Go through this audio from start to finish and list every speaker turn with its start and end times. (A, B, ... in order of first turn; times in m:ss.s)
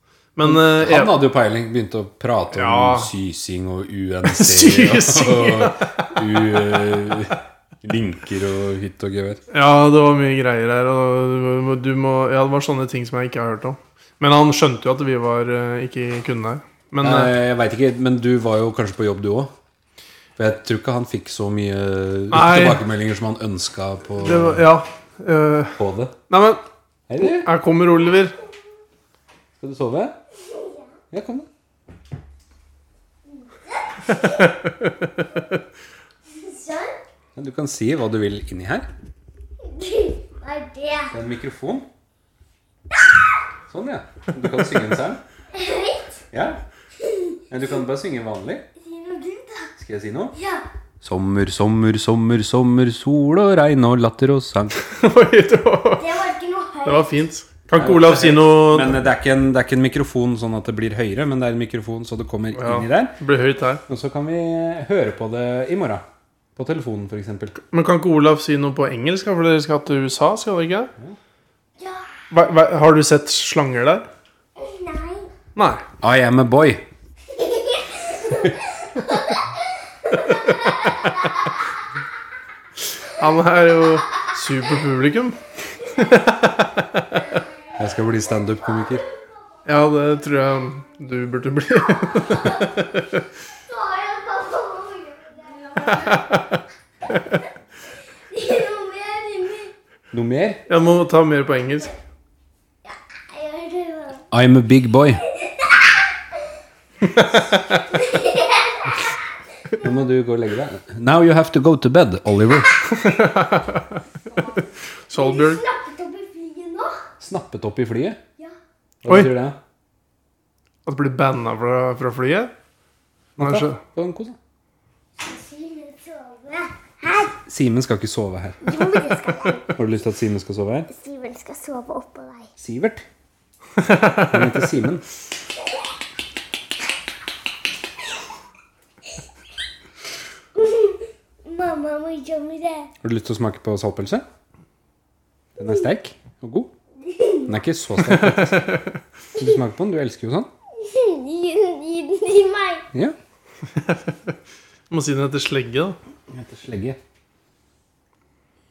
0:00.4-0:01.2 A
0:00.4-0:09.4 B
0:02.5-0:03.1 A
0:04.2-0:06.8 A
0:09.5-0:17.3 A
0:17.0-0:19.5 B
0:20.4-0:24.6 B
0:22.3-0:22.8 A
0:24.2-0:26.6 A
0:25.8-0:26.2 B
0:27.1-0:27.5 B
0:27.2-0:28.4 A
0:29.6-0:30.2 B
0:30.5-0:30.8 C
0:31.1-0:31.5 B
0:33.4-0:34.5 C
0:34.0-0:35.6 A
0:36.3-0:37.0 C
0:37.3-0:38.9 B
0:39.6-0:41.1 C
0:41.1-0:41.9 B
0:43.7-0:45.2 B
0:45.5-0:46.2 C
0:46.3-0:46.6 B
0:47.5-0:48.7 B
0:48.8-0:49.7 C
0:49.8-0:50.3 B
0:50.3-0:50.6 C
0:51.0-0:54.8 B
0:54.8-0:56.1 A
0:56.0-0:57.1 C
0:56.8-0:59.0 A
0:57.8-1:03.2 B
1:02.5-1:03.8 A
1:03.9-1:06.0 B
1:06.6-1:07.6 B
1:07.7-1:10.9 A
1:11.8-1:12.1 C
1:12.3-1:14.1 A
1:14.6-1:15.3 C
1:15.5-1:15.8 A
1:16.0-1:16.8 B
1:17.3-1:21.3 C
1:20.2-1:21.3 A
1:23.0-1:27.3 A
1:27.8-1:29.0 B
1:29.6-1:33.2 A
1:32.2-1:32.8 C
1:33.7-1:36.3 C
1:35.8-1:36.6 A
1:38.3-1:39.7 C
1:40.1-1:40.6 B
1:40.7-1:41.9 A
1:42.8-1:44.3 C
1:44.3-1:45.2 B
1:45.3-1:46.1 C
1:47.0-1:47.8 A
1:47.7-1:49.1 C
1:49.8-1:52.8 B
1:52.9-1:55.6 A
1:55.1-1:57.0 C
1:57.2-1:58.2 B
1:59.0-1:59.6 B
2:00.8-2:02.5 A
2:03.4-2:03.8 A
2:03.4-2:04.4 B
2:05.2-2:07.3 C
2:07.3-2:09.0 B
2:08.6-2:09.7 C
2:09.7-2:10.9 B
2:10.9-2:12.5 C
2:12.6-2:13.0 B
2:13.8-2:14.6 A
2:14.3-2:15.0 B
2:20.5-2:22.9 C
2:23.0-2:24.2 B
2:25.6-2:26.7 B
2:27.0-2:27.4 C
2:27.4-2:28.8 B
2:28.0-2:28.9 A
2:29.3-2:30.5 B
2:30.7-2:32.8 C
2:33.8-2:34.3 A
2:34.9-2:36.0 A
2:36.3-2:37.0 B